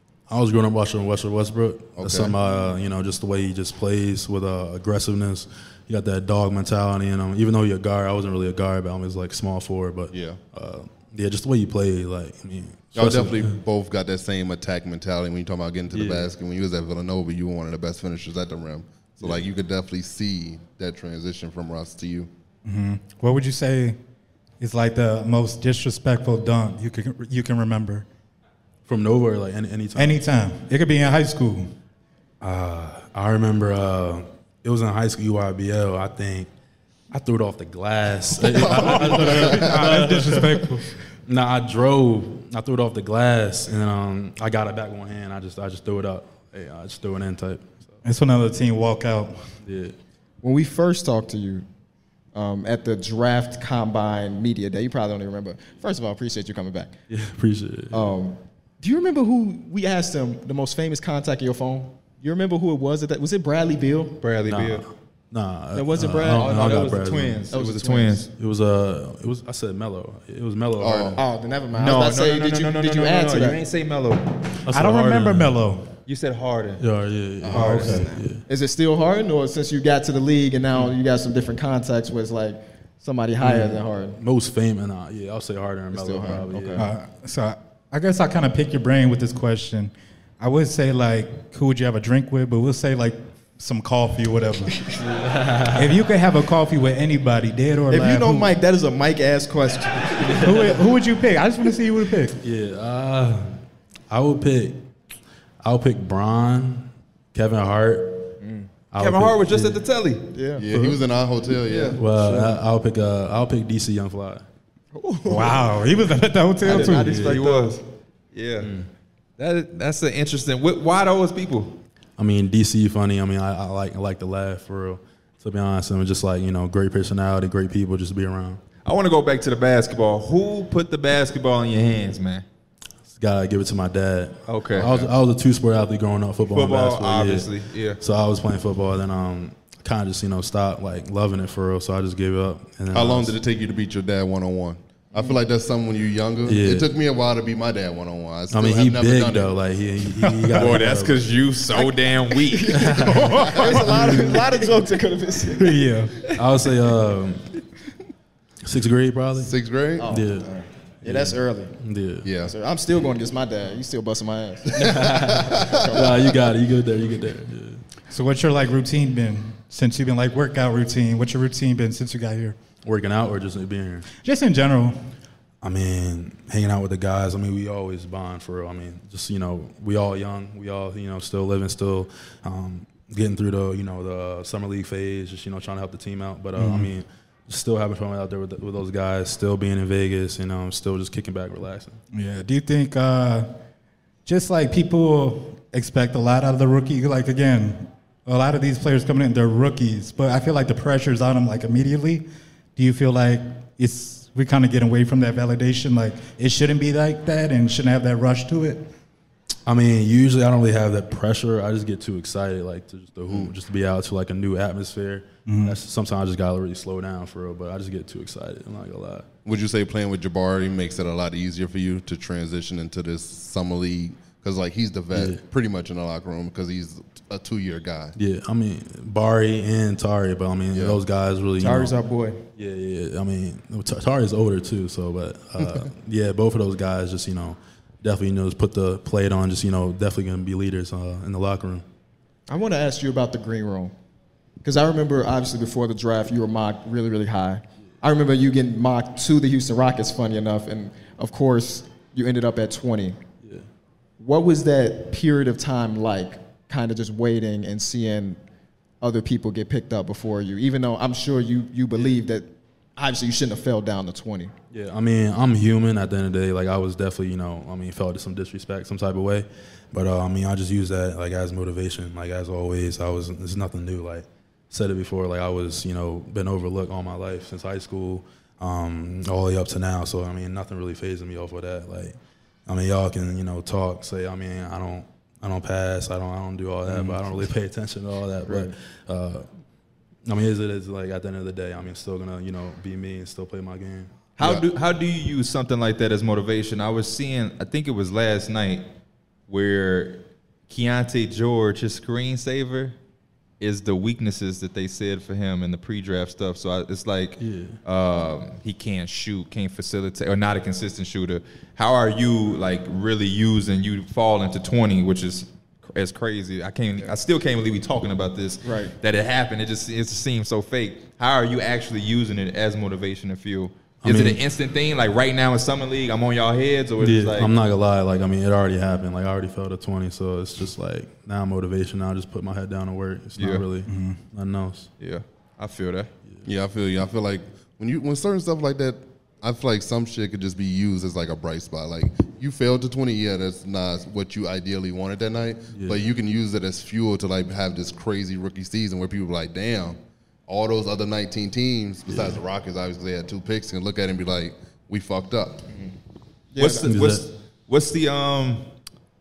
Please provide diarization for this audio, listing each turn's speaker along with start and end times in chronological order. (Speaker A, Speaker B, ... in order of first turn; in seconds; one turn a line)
Speaker A: 0.3-13.6
Speaker B: 2.0-2.3
Speaker B: 10.1-10.4
Speaker B: 12.9-22.3
Speaker A: 15.9-16.3
Speaker C: 22.6-24.0
Speaker C: 24.6-28.1
Speaker A: 28.9-30.2
Speaker C: 29.9-31.7
Speaker A: 32.4-36.5
Speaker A: 37.1-40.7
Speaker C: 38.5-40.8
Speaker B: 38.8-39.7
Speaker A: 41.3-48.0
Speaker C: 48.0-49.5
Speaker A: 49.6-50.0
Speaker D: 50.4-51.7
Speaker D: 52.3-56.9
Speaker A: 57.1-58.1
Speaker D: 57.9-64.1
Speaker E: 64.2-64.8
Speaker A: 64.5-67.5
Speaker D: 65.7-66.8
Speaker E: 66.4-68.3
Speaker D: 67.5-68.2
Speaker A: 68.3-71.2
Speaker B: 70.8-71.2
Speaker D: 71.2-73.6
Speaker E: 71.7-74.4
Speaker A: 74.7-75.6
Speaker C: 74.7-75.9
Speaker E: 76.1-76.8
Speaker A: 76.8-78.4
Speaker E: 77.5-78.0
Speaker D: 77.6-84.2
Speaker A: 83.4-86.8
Speaker D: 85.9-86.9
Speaker C: 86.8-94.8
Speaker A: 95.1-96.0
Speaker C: 95.7-98.5
Speaker D: 97.9-100.5
Speaker C: 100.3-102.3
Speaker A: 102.4-103.6
Speaker A: 104.1-104.8
Speaker A: 105.6-108.3
Speaker D: 108.4-108.7
Speaker A: 108.9-109.8
Speaker E: 109.0-110.3
Speaker D: 110.3-110.6
Speaker B: 110.6-112.4
Speaker E: 111.7-111.9
Speaker A: 112.0-114.4
Speaker D: 114.9-115.7
Speaker C: 115.2-117.2
Speaker D: 116.6-117.8
Speaker E: 116.7-117.8
Speaker A: 117.0-117.4
Speaker E: 118.3-118.7
Speaker A: 118.6-118.9
Speaker E: 119.4-121.8
Speaker A: 122.2-128.6
Speaker E: 128.8-132.4
Speaker A: 133.1-143.3
Speaker E: 134.5-135.1
Speaker B: 134.8-135.1
Speaker E: 136.5-138.0
Speaker B: 142.9-149.5
Speaker A: 146.4-146.9
Speaker A: 148.5-151.2
Speaker C: 150.2-150.6
Speaker E: 150.6-152.8
Speaker D: 152.4-155.8
Speaker A: 152.7-154.4
Speaker C: 153.1-153.7
Speaker C: 155.6-156.1
Speaker A: 156.3-157.4
Speaker A: 158.6-159.5
Speaker B: 159.4-160.1
Speaker D: 160.0-161.7
Speaker A: 160.1-160.4
Speaker A: 161.0-162.3
Speaker B: 162.2-162.5
Speaker D: 162.4-166.2
Speaker A: 164.7-167.8
Speaker C: 168.1-172.6
Speaker A: 172.8-174.1
Speaker C: 174.2-174.9
Speaker A: 175.6-192.0
Speaker C: 186.6-186.9
Speaker C: 192.1-193.5
Speaker C: 194.2-202.2
Speaker C: 202.8-208.9
Speaker A: 209.7-219.3
Speaker C: 215.4-215.8
Speaker B: 219.4-228.1
Speaker A: 225.1-225.4
Speaker A: 228.2-231.9
Speaker B: 230.7-231.0
Speaker D: 231.6-232.4
Speaker A: 232.6-241.8
Speaker D: 242.5-243.9
Speaker D: 244.6-253.2
Speaker D: 254.2-258.4
Speaker D: 259.0-264.5
Speaker A: 264.7-289.5
Speaker A: 290.2-294.1
Speaker E: 294.4-298.9
Speaker E: 299.5-302.9
Speaker E: 303.6-327.5
Speaker A: 307.4-307.8
Speaker D: 318.6-318.9
Speaker A: 324.0-324.4
Speaker A: 327.0-334.9
Speaker E: 333.4-333.6
Speaker C: 333.9-334.2
Speaker E: 335.0-336.1
Speaker B: 336.4-355.6
Speaker A: 345.7-346.1
Speaker A: 352.1-352.4
Speaker D: 356.5-356.9
Speaker E: 356.6-358.6
Speaker A: 356.9-357.2